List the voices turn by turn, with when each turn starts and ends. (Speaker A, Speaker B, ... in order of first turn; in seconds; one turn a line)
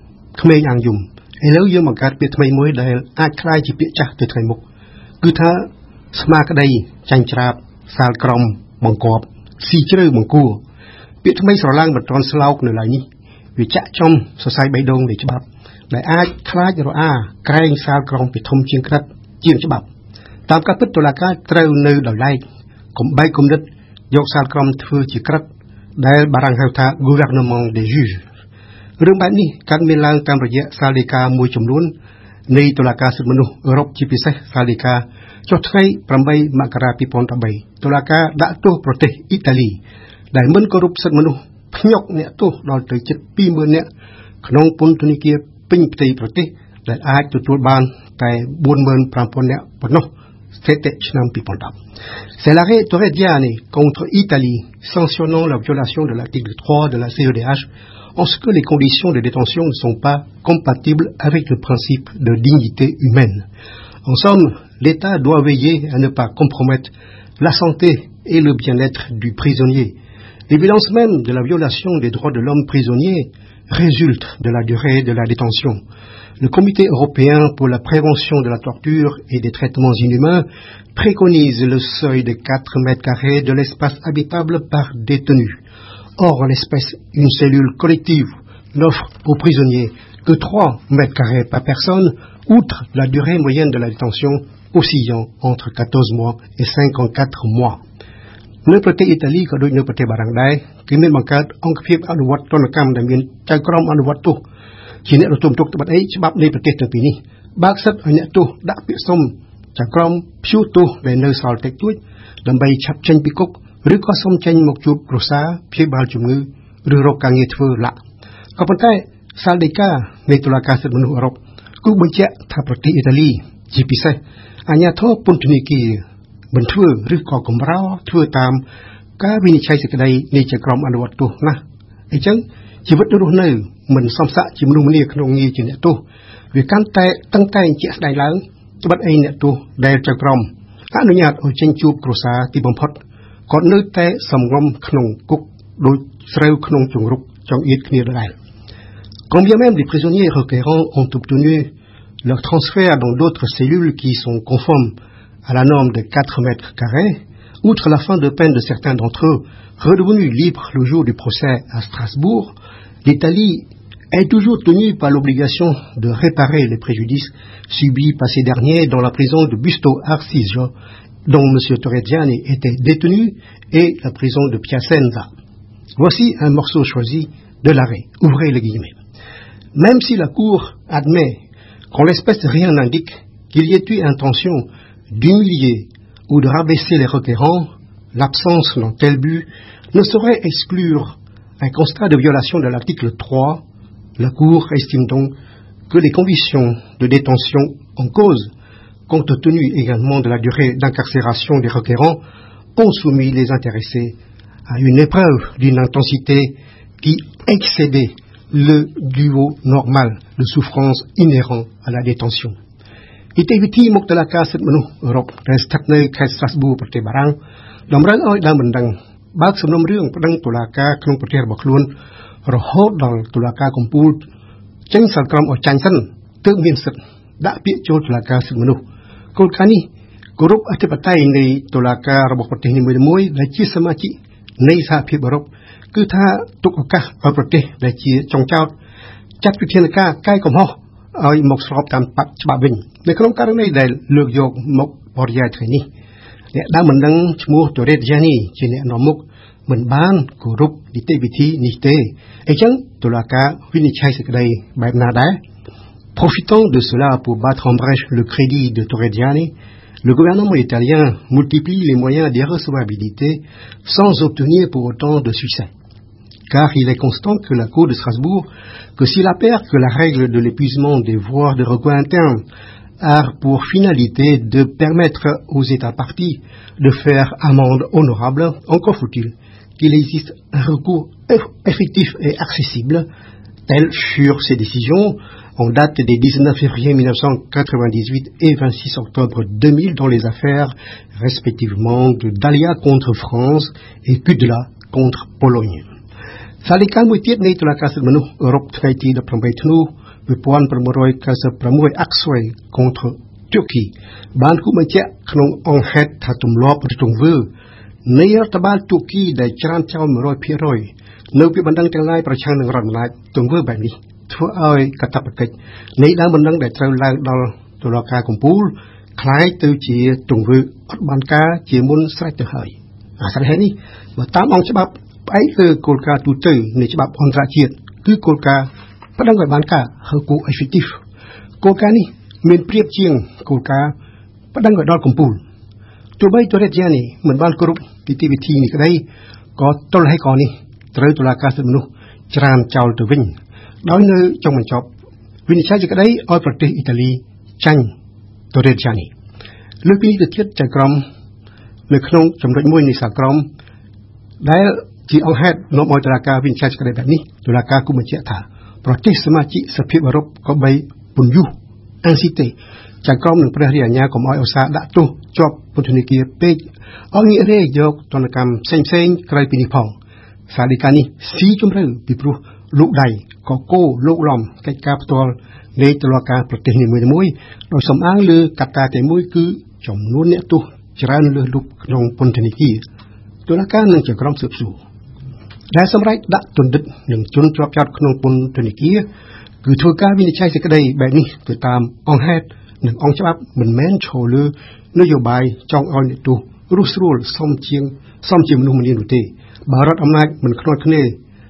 Speaker A: 0.3-4.6
Speaker A: 5.2-10.6
Speaker A: 11.2-13.0
Speaker A: 13.6-19.9
Speaker A: 20.5-22.4
Speaker A: 22.9-25.5
Speaker A: 26.0-28.2
Speaker A: 29.0-31.9
Speaker A: 32.5-39.8
Speaker A: 40.3-43.9
Speaker A: 44.4-50.1
Speaker A: 50.6-51.7
Speaker A: 52.4-63.5
Speaker A: 64.0-70.0
Speaker A: 70.5-75.8
Speaker A: 76.4-80.4
Speaker A: 81.0-85.6
Speaker A: 86.2-97.8
Speaker A: 98.7-104.4
Speaker A: 105.0-118.0
Speaker A: 118.6-124.2
Speaker A: 124.7-126.0
Speaker A: 126.5-128.6
Speaker A: 129.2-131.6
Speaker A: 132.1-136.0
Speaker A: 136.5-148.3
Speaker A: 149.3-151.7
Speaker A: 152.2-154.9
Speaker A: 155.5-162.5
Speaker A: 163.0-170.7
Speaker A: 171.3-175.3
Speaker A: 176.0-179.0
Speaker A: 179.8-181.4
Speaker A: 181.9-193.6
Speaker A: 194.2-195.3
Speaker A: 195.9-198.5
Speaker A: 199.1-202.2
Speaker A: 202.8-204.2
Speaker A: 204.7-212.6
Speaker A: 213.3-217.3
Speaker A: 217.9-221.9
Speaker A: 222.5-224.2
Speaker A: 224.9-228.8
Speaker A: 229.3-229.8
Speaker A: 230.4-238.7
Speaker A: 239.4-245.9
Speaker A: 246.5-255.4
Speaker A: 256.2-259.5
Speaker A: 260.0-265.7
Speaker A: 266.5-272.4
Speaker A: 273.0-283.1
Speaker A: 283.7-295.8
Speaker A: 296.6-307.5
Speaker A: 308.1-331.0
Speaker A: 331.6-333.9
Speaker A: 334.5-335.4
Speaker A: 336.2-339.0
Speaker A: 339.6-343.3
Speaker A: 343.8-344.9
Speaker A: 345.5-347.9
Speaker A: 348.5-349.1
Speaker A: 349.8-351.0
Speaker A: 351.9-353.5
Speaker A: 354.4-361.5
Speaker A: 362.0-369.9
Speaker A: 370.5-382.8
Speaker A: 383.5-384.8
Speaker A: 385.7-389.0
Speaker A: 389.6-401.2